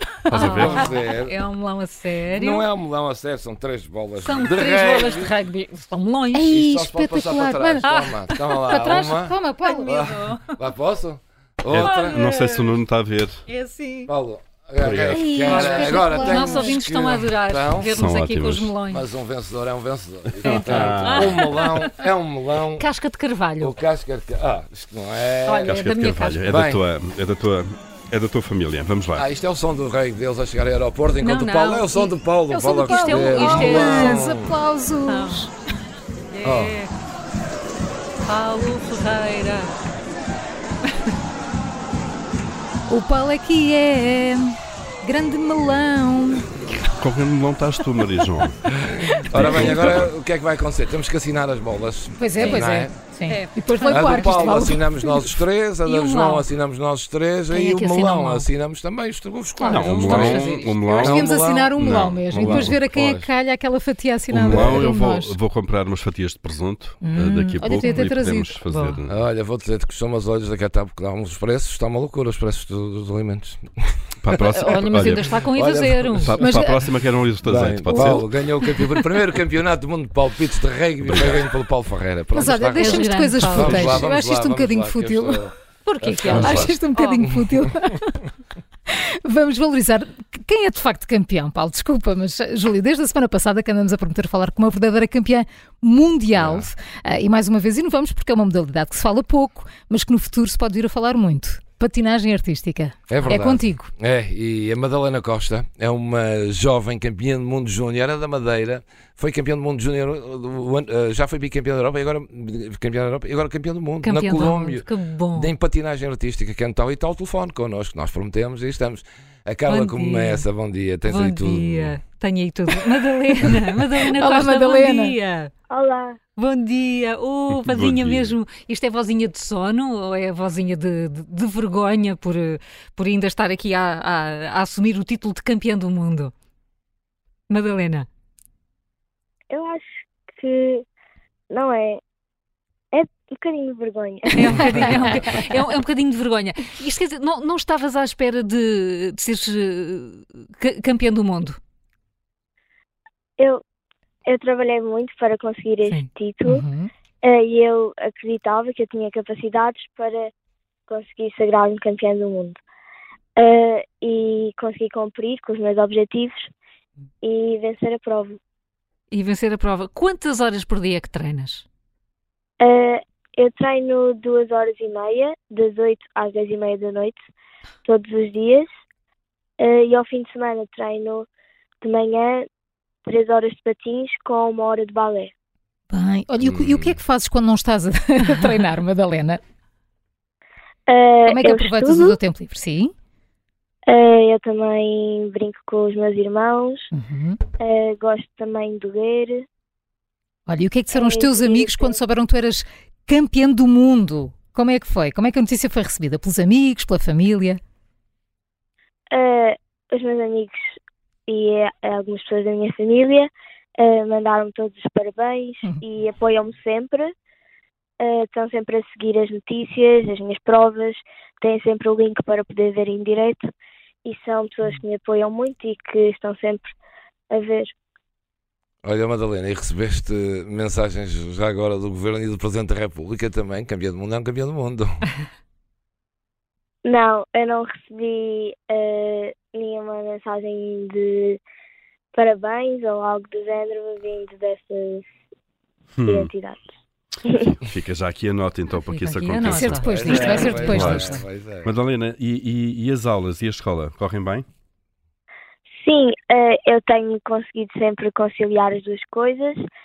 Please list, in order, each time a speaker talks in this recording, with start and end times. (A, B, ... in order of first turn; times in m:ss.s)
0:00.3-0:00.8 A
0:00.3-0:02.7 B
0:00.3-0:01.4 C
0:02.3-0:05.3 C
0:04.2-0:06.5 B
0:06.3-0:07.9 D
0:06.5-0:12.3 C
0:08.6-0:10.0 D
0:08.7-0:09.0 B
0:09.6-0:10.4 B
0:11.7-0:13.4 A
0:11.8-0:12.8 B
0:13.5-0:14.1 B
0:14.1-0:17.9 C
0:14.8-0:15.3 A
0:15.1-0:19.1 B
0:15.4-0:16.8 D
0:17.8-0:18.8 A
0:18.9-0:22.9 C
0:20.4-0:21.4 A
0:20.4-0:21.9 B
0:22.8-0:23.8 B
0:23.6-0:25.8 C
0:25.4-0:26.4 B
0:25.7-0:29.3 A
0:26.5-0:26.8 C
0:29.2-0:34.5 C
0:31.2-0:34.2 B
0:32.8-0:35.5 D
0:35.1-0:35.5 B
0:36.3-0:36.9 B
0:36.4-0:36.8 C
0:38.2-0:39.8 B
0:42.9-0:46.5 D
0:47.0-0:48.6 A
0:48.9-0:53.0 C
0:49.3-0:50.1 A
0:52.2-0:55.3 D
0:53.3-0:54.5 B
0:53.9-1:01.7 C
0:55.8-0:56.5 B
0:57.6-0:58.4 B
0:59.6-1:01.1 B
0:59.7-1:02.8 A
1:01.0-1:05.4 D
1:02.3-1:03.3 C
1:04.3-1:09.2 A
1:04.5-1:04.9 C
1:07.0-1:08.5 D
1:07.8-1:08.1 B
1:08.7-1:09.0 B
1:09.1-1:13.6 C
1:14.2-1:15.4 A
1:14.3-1:16.4 B
1:15.4-1:16.6 C
1:16.2-1:18.3 A
1:16.4-1:16.8 D
1:17.4-1:26.7 C
1:18.8-1:19.0 B
1:21.0-1:21.5 A
1:22.3-1:25.5 D
1:22.7-1:24.0 B
1:23.7-1:24.0 A
1:25.8-1:27.3 B
1:26.3-1:26.8 A
1:26.3-1:28.2 D
1:28.9-1:43.9 D
1:36.4-1:36.7 C
1:43.1-2:02.0 C
1:54.0-1:55.5 B
1:59.7-2:00.4 B
2:01.1-2:05.5 B
2:04.2-2:05.2 D
2:05.7-2:06.2 E
2:06.4-2:16.3 B
2:07.6-2:08.4 A
2:17.5-2:18.1 B
2:19.5-2:20.8 E
2:21.5-2:22.0 E
2:22.9-2:25.1 E
2:24.3-2:31.6 B
2:24.5-2:25.3 D
2:34.3-2:36.7 E
2:35.8-2:36.1 B
2:36.5-2:36.9 D
2:37.2-2:40.3 E
2:40.9-2:42.6 E
2:43.4-2:46.5 E
2:47.2-2:48.4 E
2:49.1-2:51.6 B
2:52.6-2:57.2 E
2:57.8-2:58.7 E
2:59.6-3:01.3 E
3:01.8-3:02.5 E
3:03.0-3:05.3 E
3:05.9-3:09.4 D
3:06.4-3:07.0 C
3:10.9-3:12.2 E
3:11.3-3:12.9 D
3:13.9-3:16.9 E
3:16.9-3:17.4 D
3:17.6-3:19.4 E
3:20.5-3:27.6 D
3:20.9-3:22.0 E
3:29.1-3:30.8 E
3:31.3-3:37.1 E
3:38.0-3:43.4 E
3:44.0-3:46.8 E
3:47.3-3:47.7 E
3:48.8-3:55.1 C
3:56.8-4:01.4 E
4:02.1-4:05.1 E
4:06.0-4:06.3 A
4:06.0-4:06.6 E
4:07.2-4:07.5 E
4:07.4-4:10.0 A
4:08.9-4:10.6 B
4:09.4-4:11.2 D
4:09.8-4:11.7 C
4:10.7-4:14.5 A
4:15.8-4:19.6 E